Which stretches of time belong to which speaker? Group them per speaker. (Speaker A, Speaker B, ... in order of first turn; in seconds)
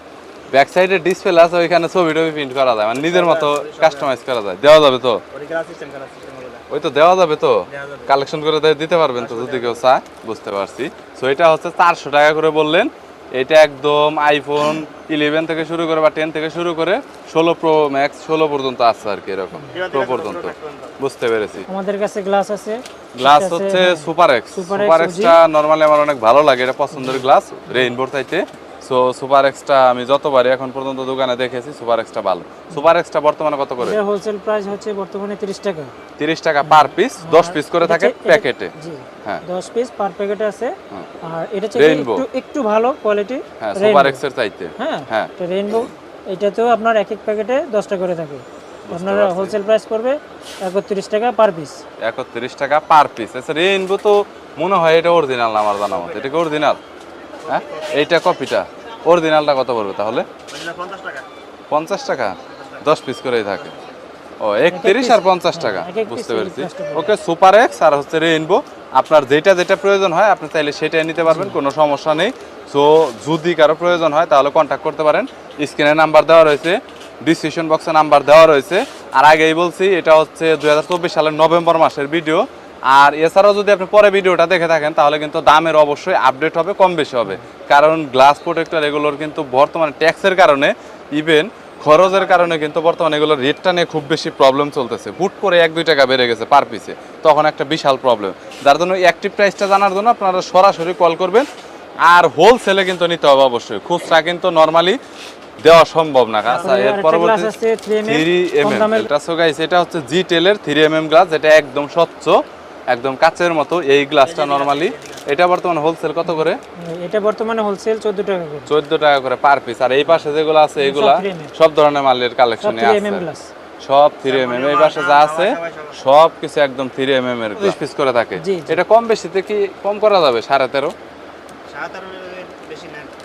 Speaker A: 0.5-5.2, 6.7-21.7, 23.2-34.0, 36.2-38.7, 41.8-42.3, 43.6-45.3, 48.9-49.6, 52.0-56.8, 57.5-60.3, 61.7-63.8, 64.4-101.5, 102.0-105.0, 105.6-112.4, 112.9-116.6, 118.7-123.3, 123.8-130.9
Speaker B: 3.0-4.2, 5.3-6.6, 7.7-8.1, 9.2-9.9, 19.7-20.9, 57.5-58.1, 60.5-61.3, 114.2-115.2, 124.2-126.0, 131.7-133.1
Speaker C: 21.7-25.4, 26.9-27.9, 33.8-35.9, 36.6-44.2, 44.8-51.8, 64.7-67.1, 71.3-71.6, 106.5-109.1, 116.3-118.7, 120.8-121.5, 122.6-123.5, 128.4-128.8